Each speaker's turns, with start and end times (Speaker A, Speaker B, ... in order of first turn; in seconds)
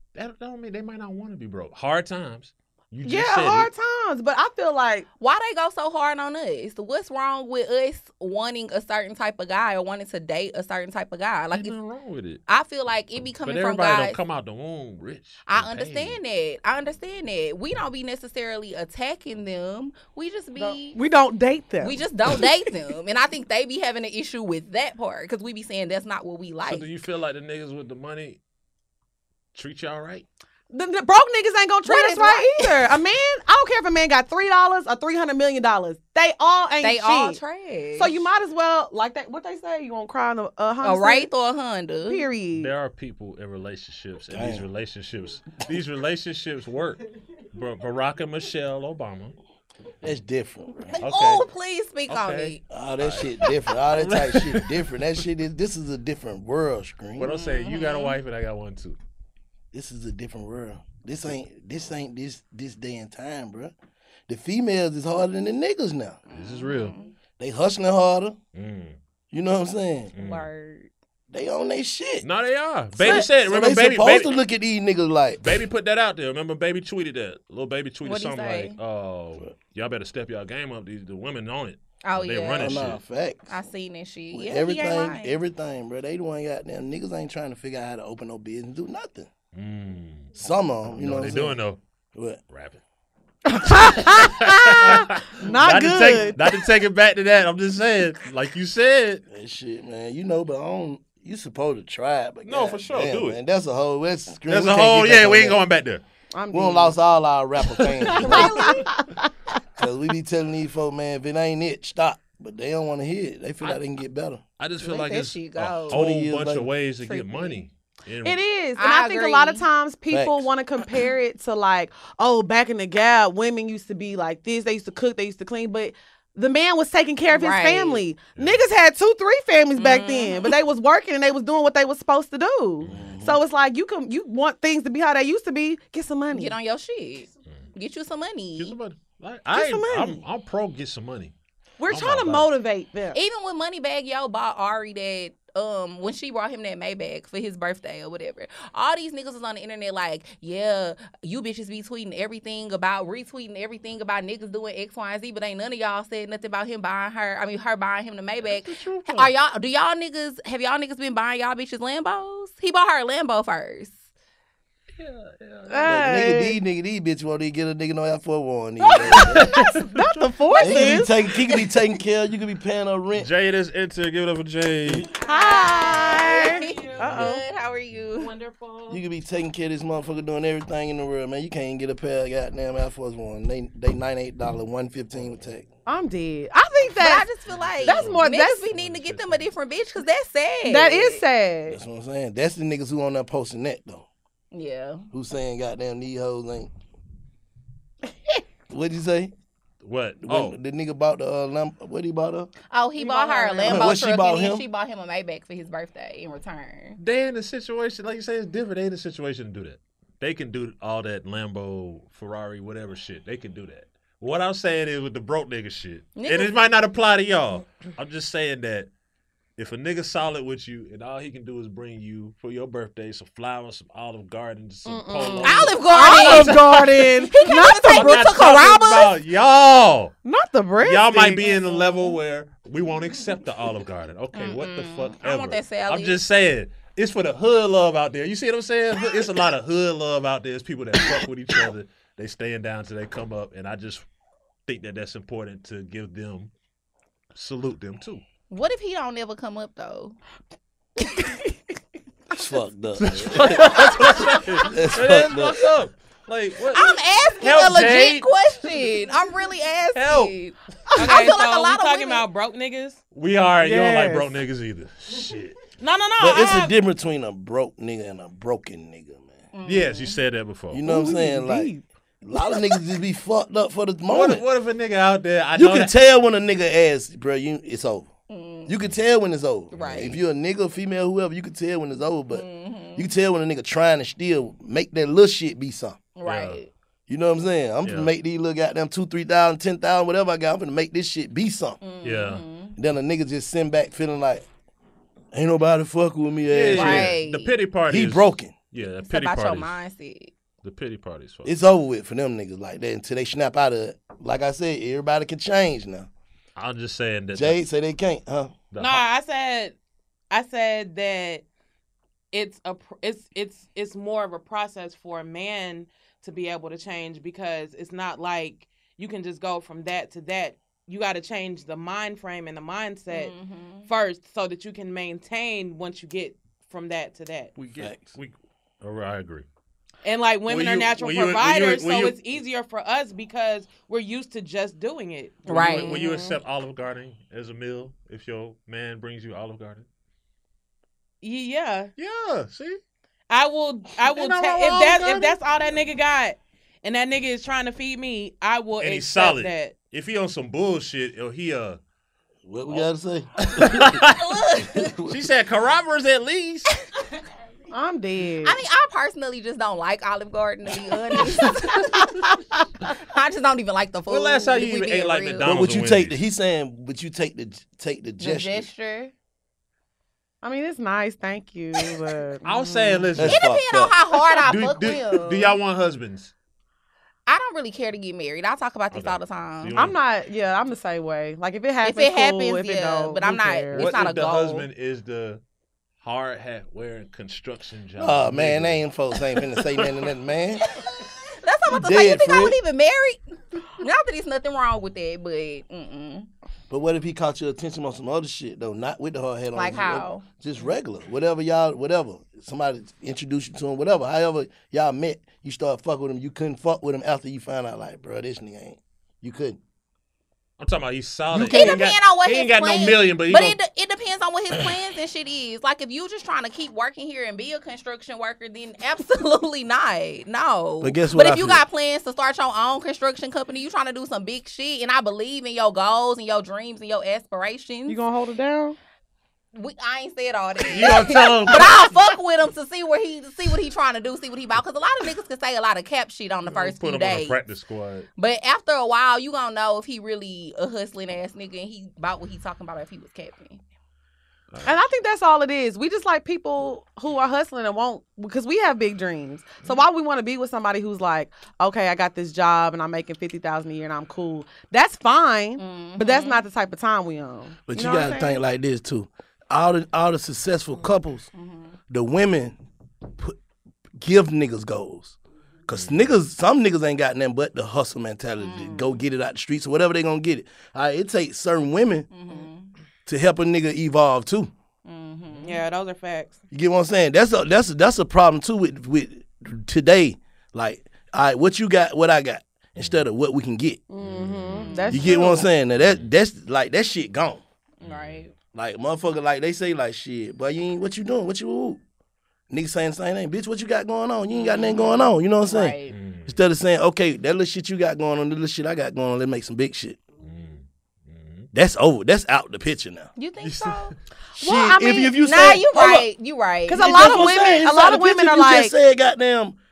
Speaker A: 0.1-3.7, 11.5-12.4, 13.4-16.2, 26.7-28.4, 29.5-30.2, 42.5-49.4, 51.0-51.4, 52.1-54.9, 57.2-59.0, 66.3-66.9, 68.5-69.0, 70.1-70.5, 72.2-74.3, 75.4-83.0, 89.5-90.3, 90.9-91.8, 92.5-92.8, 93.8-99.2, 102.5-103.4, 104.5-106.0, 107.8-108.3, 114.6-118.4, 128.3-128.6, 138.6-141.3, 141.9-142.5, 158.4-159.3, 165.0-166.0, 169.1-169.7, 173.1-175.1, 177.0-177.3, 187.6-189.5, 199.8-200.6, 207.0-218.9, 219.6-226.8, 227.9-230.1, 230.8-244.1, 244.7-246.5, 247.3-248.2, 253.0-258.4, 259.9-260.3, 263.1-265.6, 269.6-270.8, 274.1-275.9, 279.8-280.1, 286.2-286.6, 287.8-288.1, 292.0-292.4, 296.5-299.8, 300.6-301.6, 306.6-307.6, 308.7-309.0, 327.6-329.4, 330.5-332.4, 335.4-339.9, 342.0-342.8, 344.1-345.4, 348.8-351.8, 352.6-354.4, 355.0-356.7, 364.1-366.2, 372.4-373.4, 374.5-376.3, 378.9-380.0, 383.7-385.4, 386.0-390.1, 410.6-413.6, 430.6-431.9, 436.5-438.1, 465.7-466.0, 484.0-484.8, 485.8-486.1, 487.8-488.2, 495.9-496.4, 500.2-501.5, 503.4-503.9
Speaker B: 3.0-5.0, 20.6-22.4, 30.7-37.4, 38.0-41.3, 42.1-42.7, 93.4-96.6, 106.3-106.9, 108.2-109.3, 118.2-136.5, 139.5-140.2, 141.8-143.2, 165.7-166.6, 168.8-171.7, 175.2-177.4, 185.8-187.3, 187.8-188.7, 190.6-191.8, 203.0-204.0, 224.8-228.3, 230.2-232.1, 251.0-251.5, 260.9-261.3, 263.6-264.3, 270.8-271.8, 335.9-336.3, 357.7-358.6, 362.0-362.3, 370.4-373.1, 374.3-375.6, 379.8-384.0, 427.9-428.8, 444.6-458.4, 483.9-485.5, 504.4-506.0, 506.7-508.7
Speaker C: 5.2-11.8, 12.5-14.2, 15.4-21.0, 21.8-26.9, 31.8-32.8, 36.8-38.2, 40.8-42.2, 50.9-52.6, 57.3-58.2, 66.3-67.1, 70.2-70.9, 78.0-78.8, 82.0-82.9, 83.5-85.4, 108.2-108.9, 114.8-116.0, 117.0-117.6, 118.8-119.6, 127.3-128.0, 129.8-130.5, 136.3-138.7, 143.1-163.9, 175.2-178.3, 187.0-191.2, 194.5-195.1, 202.7-207.0, 216.2-216.5, 225.4-229.1, 234.3-236.2, 248.5-250.2, 256.7-262.2, 269.5-270.2, 278.3-278.7, 279.7-280.2, 282.3-283.1, 286.1-286.7, 291.8-292.7, 296.7-297.6, 299.0-300.3, 323.1-323.9, 335.5-335.9, 353.8-354.9, 358.4-362.1, 362.9-365.5, 368.2-369.1, 373.2-375.2, 377.2-379.8, 381.8-384.7, 391.3-396.3, 399.5-400.2, 411.5-428.0, 429.5-437.4, 438.1-443.6, 455.6-456.4, 461.3-461.7, 468.4-468.9, 472.1-472.7, 474.9-475.6, 484.5-485.0, 487.8-488.3, 494.3-495.9, 503.1-503.9, 505.2-507.1
Speaker D: 44.3-44.6, 50.0-50.9, 52.7-57.3, 59.7-63.7, 64.3-66.2, 67.4-68.3, 69.3-70.1, 71.3-72.2, 73.0-75.5, 82.5-83.5, 84.3-89.3, 90.3-91.6, 92.1-92.4, 99.3-105.6, 106.5-108.8, 109.8-114.4, 115.9-116.7, 120.1-120.5, 132.9-133.4, 165.8-169.5, 170.5-173.3, 178.9-185.7, 191.7-194.0, 195.1-196.7, 198.7-199.3, 200.2-202.5, 203.6-204.6, 252.3-255.6, 266.2-269.4, 270.7-271.7, 272.2-274.4, 275.6-278.1, 278.7-282.4, 282.9-286.0, 287.1-291.8, 292.8-294.5, 295.3-297.1, 297.9-298.5, 301.4-306.1, 307.3-308.6, 327.8-328.1, 352.4-353.9, 354.7-355.2, 365.4-368.7, 373.1-373.9, 388.0-390.6, 391.7-392.6, 396.7-409.6, 411.3-411.9, 420.8-421.6, 457.7-461.3, 461.9-462.6, 464.0-465.1, 465.7-472.1, 473.1-474.5, 476.5-483.8, 484.9-487.4, 488.5-491.8, 492.5-500.0, 501.5-503.1, 504.4-506.0, 506.7-509.6
Speaker E: 176.5-177.0, 178.2-179.0, 261.0-263.0, 265.8-266.8, 308.8-309.8, 310.3-311.4, 312.3-323.3, 323.9-327.5, 330.0-336.2, 341.2-341.9, 343.3-349.8, 475.4-476.4